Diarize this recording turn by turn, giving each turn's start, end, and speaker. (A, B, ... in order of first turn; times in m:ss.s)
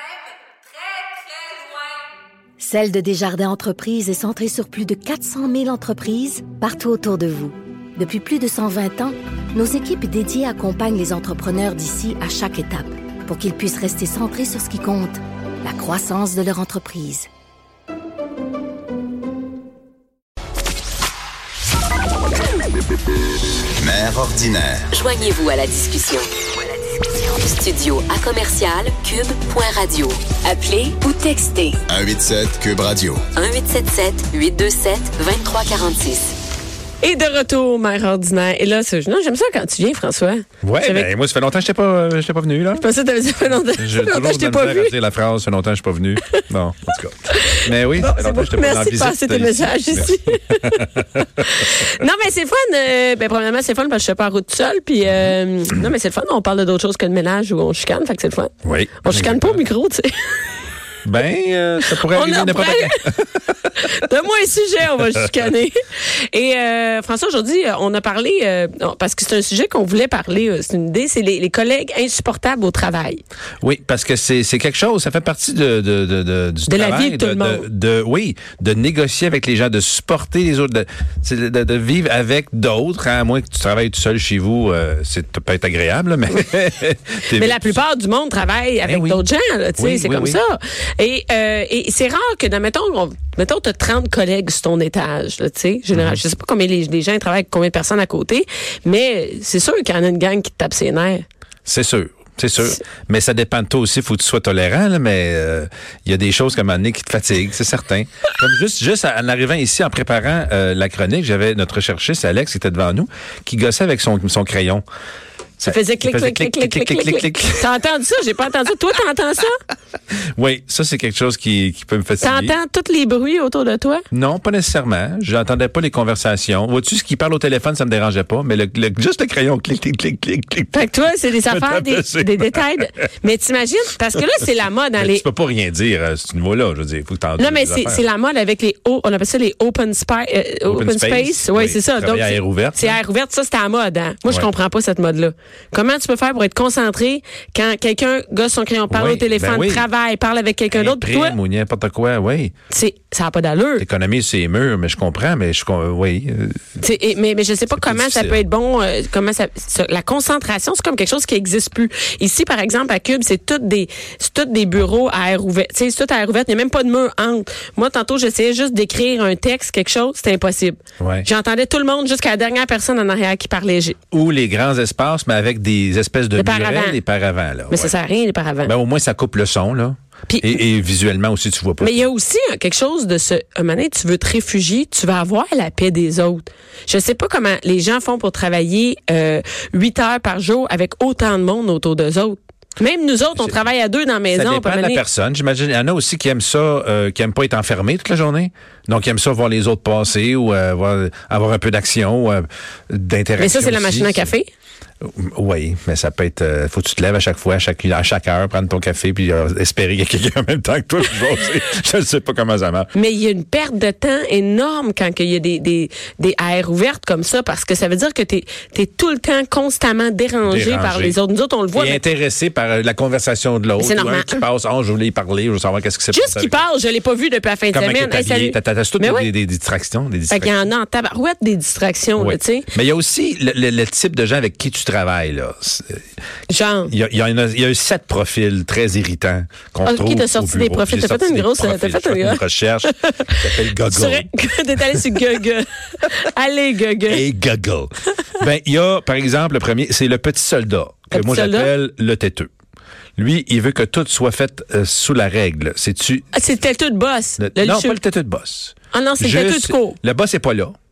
0:02.6-0:17.3 A
0:23.8-0:24.9 B
0:24.9-0:26.3 C
0:27.1-0:30.4 C
0:30.4-0:31.8 D
0:31.9-0:33.2 B
0:33.3-0:36.3 C
0:37.0-0:41.1 D
0:40.6-0:42.8 E
0:42.8-0:44.9 D
0:43.8-0:51.8 E
0:47.3-0:58.5 D
0:58.6-0:59.6 E
0:59.0-1:00.5 D
1:01.0-1:03.8 E
1:02.0-1:03.1 D
1:03.7-1:13.2 D
1:13.6-1:27.8 E
1:16.7-1:17.7 D
1:27.3-1:41.2 D
1:28.8-1:29.2 E
1:29.8-1:30.4 E
1:35.9-1:36.2 E
1:41.7-1:54.8 E
1:55.6-1:57.6 E
1:55.6-1:59.6 D
2:00.4-2:02.6 E
2:02.2-2:04.0 D
2:04.1-2:13.0 E
2:10.7-2:15.3 D
2:15.0-2:18.0 E
2:17.4-2:31.4 D
2:20.7-2:23.0 E
2:28.9-2:29.9 E
2:30.7-2:32.5 E
2:32.7-2:33.8 D
2:33.8-2:36.8 E
2:36.8-2:54.0 D
2:37.8-2:38.4 E
2:51.0-2:51.3 E
2:54.1-2:57.9 E
2:56.4-2:57.0 D
2:57.7-2:58.7 D
2:58.6-3:02.1 E
3:00.3-3:00.6 D
3:01.8-3:15.0 D
3:14.3-3:24.3 E
3:23.4-3:24.5 D
3:25.0-3:32.9 E
3:32.9-3:42.0 D
3:40.4-3:41.2 E
3:41.7-3:46.6 E
3:43.8-3:44.4 D
3:46.1-3:49.3 D
3:47.7-3:50.7 E
3:50.3-3:52.7 D
3:52.2-3:56.0 E
3:56.5-3:56.9 D
3:56.9-4:04.3 E
3:59.8-4:07.2 D
4:07.1-4:12.5 E
4:11.1-4:11.7 D
4:13.2-4:16.3 E
4:16.3-4:18.0 D
4:17.4-4:20.7 E
4:18.9-4:20.0 D